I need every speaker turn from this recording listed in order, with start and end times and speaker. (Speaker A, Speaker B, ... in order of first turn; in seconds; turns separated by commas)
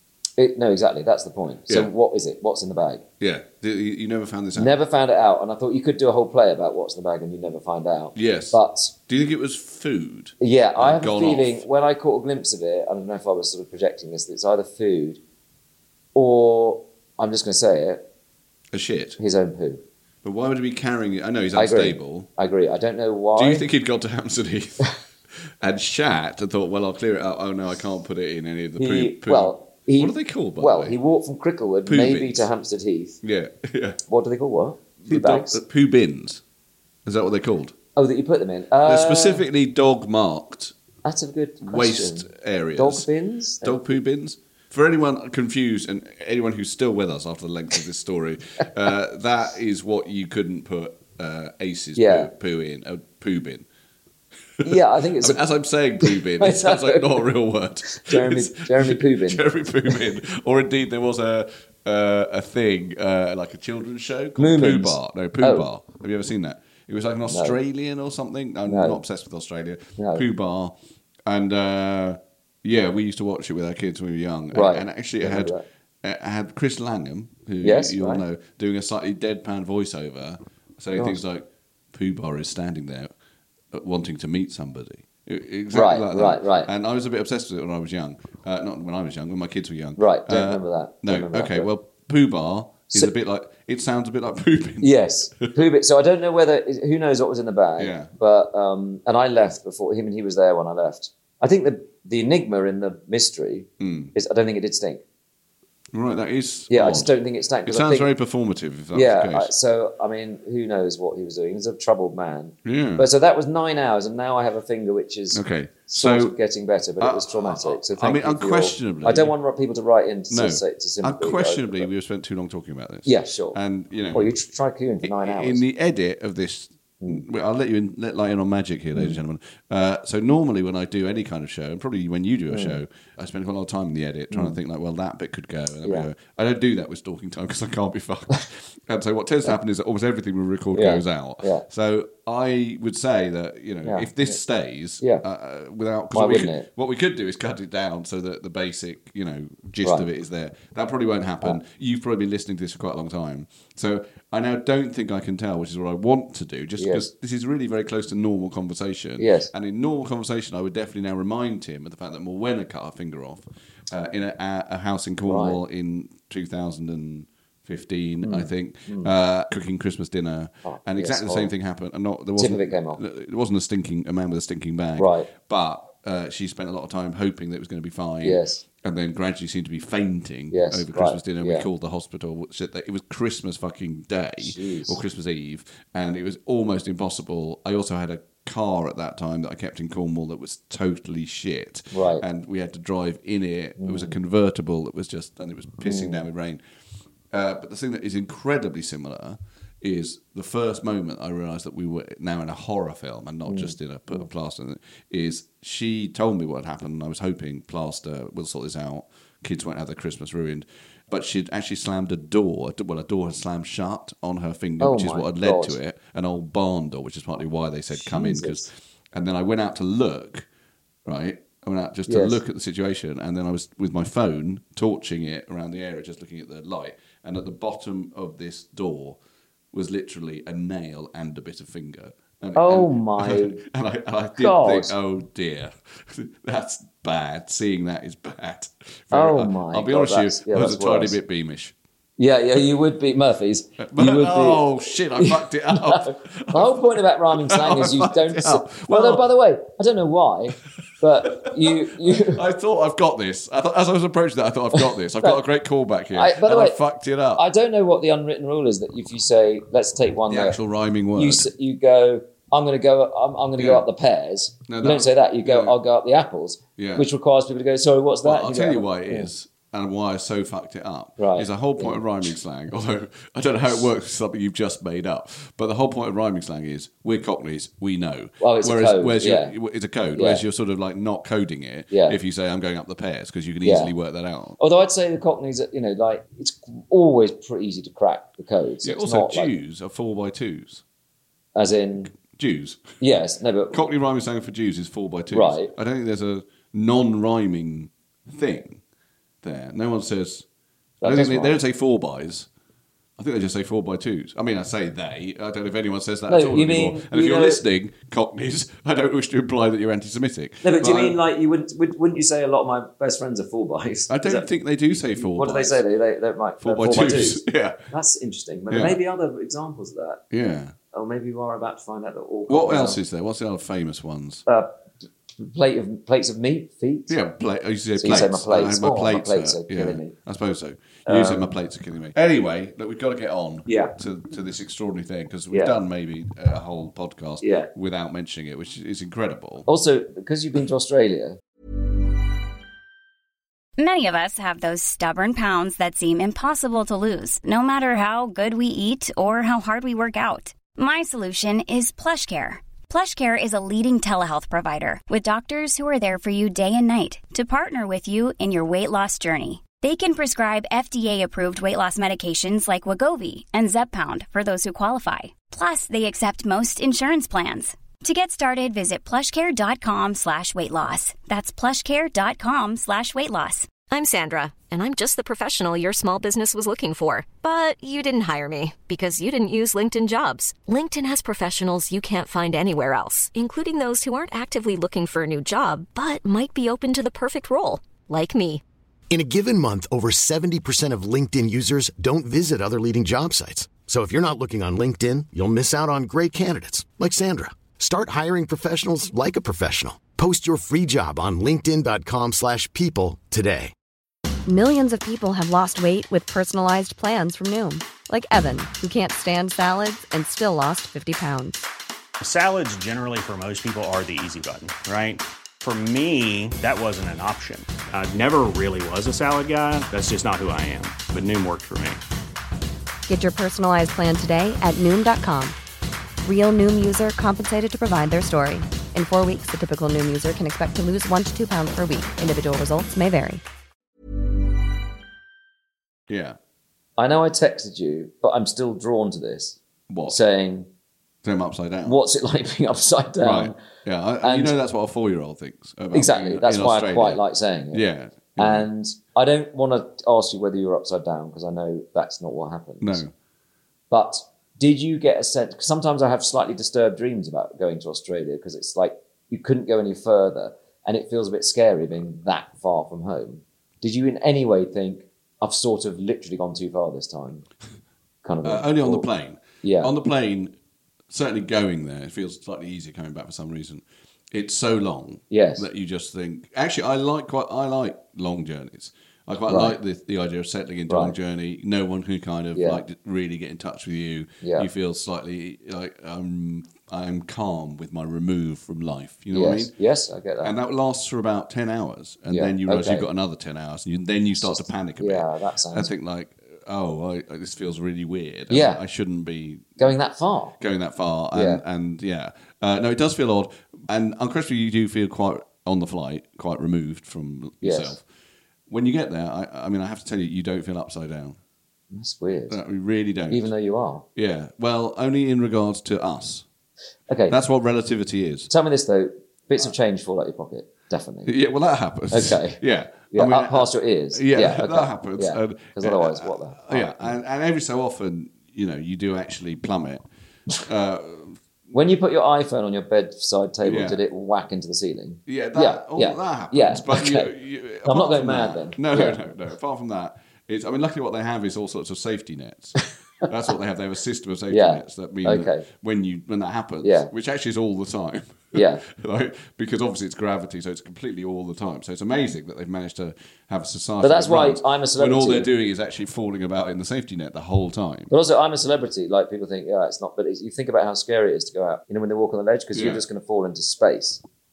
Speaker A: 0.4-3.0, Speaker B: 3.2-4.7, Speaker A: 4.5-8.9, Speaker B: 8.1-11.6, Speaker A: 10.4-15.2, Speaker A: 16.1-18.0, Speaker B: 18.7-19.2, Speaker A: 19.2-19.8, Speaker B: 20.2-22.3, Speaker A: 21.6-23.6, Speaker B: 23.4-31.0, Speaker A: 28.8-33.2, Speaker B: 31.9-32.5, Speaker B: 33.2-34.0, Speaker A: 34.1-35.6, Speaker B: 35.0-36.4, Speaker B: 37.0-37.7, Speaker A: 38.0-39.4, Speaker B: 38.8-40.7, Speaker A: 41.0-44.0, Speaker B: 41.6-43.1, Speaker B: 43.6-53.6, Speaker A: 52.0-52.3, Speaker B: 54.6-83.1, Speaker A: 54.6-55.4, Speaker A: 56.0-57.3, Speaker A: 57.9-60.1, Speaker A: 64.4-65.7, Speaker A: 67.3-67.6, Speaker A: 68.7-69.0, Speaker A: 70.0-70.2, Speaker A: 74.5-75.6, Speaker A: 77.6-78.2, Speaker A: 81.0-81.2, Speaker B: 83.7-95.5, Speaker A: 85.7-86.7, Speaker A: 90.0-91.7, Speaker A: 94.8-105.0, Speaker B: 97.8-98.1, Speaker B: 103.8-104.1, Speaker B: 105.9-107.1, Speaker A: 106.7-108.1, Speaker B: 107.6-109.5, Speaker A: 108.9-121.9, Speaker B: 112.6-113.1, Speaker B: 115.3-116.3, Speaker B: 117.0-119.3, Speaker B: 120.3-124.3, Speaker A: 123.0-123.6, Speaker A: 124.1-125.6, Speaker B: 125.0-196.6, Speaker A: 128.9-129.2, Speaker A: 132.5-132.8, Speaker A: 134.3-134.6, Speaker A: 140.7-141.6, Speaker A: 143.8-144.4, Speaker A: 146.1-146.7, Speaker A: 156.8-157.1, Speaker A: 159.2-159.5, Speaker A: 165.3-165.6, Speaker A: 168.2-169.1, Speaker A: 170.6-171.5, Speaker A: 172.4-173.0, Speaker A: 175.0-175.3, Speaker A: 178.2-178.6, Speaker A: 180.5-181.7, Speaker A: 184.4-185.0, Speaker A: 191.9-192.2, Speaker A: 193.8-194.2, Speaker A: 195.8-196.2, Speaker B: 197.3-220.4, Speaker A: 203.4-204.2, Speaker A: 214.8-215.8, Speaker A: 217.9-218.7, Speaker B: 221.1-229.2, Speaker A: 222.1-222.4, Speaker B: 229.7-241.7, Speaker A: 232.6-233.6, Speaker A: 234.4-234.9, Speaker A: 239.1-241.2, Speaker A: 242.2-252.4, Speaker B: 243.8-249.2, Speaker B: 251.2-257.4, Speaker A: 254.7-255.4, Speaker A: 256.1-256.8, Speaker A: 257.4-260.6, Speaker B: 260.3-261.5, Speaker A: 261.1-269.3, Speaker B: 263.6-263.8, Speaker B: 264.7-265.8, Speaker B: 266.8-267.1, Speaker B: 268.2-284.6, Speaker A: 271.2-272.0, Speaker A: 278.4-279.5, Speaker A: 280.1-280.4, Speaker A: 281.9-282.2, Speaker A: 283.6-283.9, Speaker A: 284.6-289.5, Speaker B: 288.8-290.8, Speaker A: 291.5-292.1, Speaker B: 292.1-292.9, Speaker A: 293.0-293.9, Speaker B: 293.7-298.8, Speaker A: 295.3-295.7, Speaker B: 299.4-300.4, Speaker A: 301.0-301.6, Speaker B: 301.0-302.5, Speaker B: 303.2-311.2, Speaker A: 306.3-307.6, Speaker A: 310.6-314.5, Speaker B: 314.1-315.8, Speaker A: 315.2-320.2, Speaker B: 316.6-317.8, Speaker B: 318.7-319.0, Speaker B: 320.3-320.7, Speaker A: 320.9-323.0, Speaker B: 322.5-324.4, Speaker A: 325.4-327.1, Speaker B: 327.1-339.7, Speaker A: 328.0-330.1, Speaker A: 331.1-331.5, Speaker A: 333.6-333.9, Speaker A: 335.5-335.8, Speaker A: 337.4-337.7, Speaker A: 339.6-341.4, Speaker C: 343.8-373.8, Speaker D: 373.9-388.6, Speaker E: 389.1-403.7, Speaker F: 404.5-411.6, Speaker G: 412.2-422.0, Speaker F: 423.1-425.6, Speaker F: 426.2-433.4, Speaker B: 436.1-436.4, Speaker A: 437.0-440.7, Speaker B: 439.9-440.2, Speaker B: 441.2-442.0, Speaker A: 441.8-443.6, Speaker B: 443.2-448.6, Speaker A: 444.2-444.5, Speaker A: 445.9-447.8, Speaker A: 448.4-453.0, Speaker B: 452.8-453.1, Speaker A: 453.9-467.4, Speaker A: 468.2-469.1, Speaker B: 468.4-470.5, Speaker A: 469.6-469.9, Speaker B: 471.1-489.7, Speaker A: 475.3-475.6, Speaker A: 479.5-479.8, Speaker A: 480.9-481.1, Speaker A: 482.5-482.8, Speaker A: 484.4-484.7, Speaker A: 489.3-490.5, Speaker B: 490.4-499.9, Speaker A: 492.3-493.1, Speaker A: 494.4-495.9, Speaker A: 498.5-498.8, Speaker A: 499.8-500.6, Speaker B: 500.6-508.0, Speaker A: 501.3-501.6, Speaker A: 507.6-508.0, Speaker B: 508.7-511.4, Speaker A: 511.9-512.6, Speaker B: 512.5-513.5, Speaker A: 513.3-514.0, Speaker B: 514.1-516.5, Speaker A: 517.1-517.4, Speaker B: 517.3-518.5, Speaker A: 518.5-521.3, Speaker B: 521.2-530.0, Speaker A: 522.1-527.1, Speaker B: 530.6-531.4, Speaker A: 531.7-537.3, Speaker B: 533.6-534.0, Speaker B: 535.3-558.1, Speaker A: 537.8-539.2, Speaker A: 544.5-545.6, Speaker A: 546.8-547.1, Speaker A: 548.5-548.8, Speaker A: 554.0-555.5, Speaker A: 558.1-564.2, Speaker B: 562.7-563.0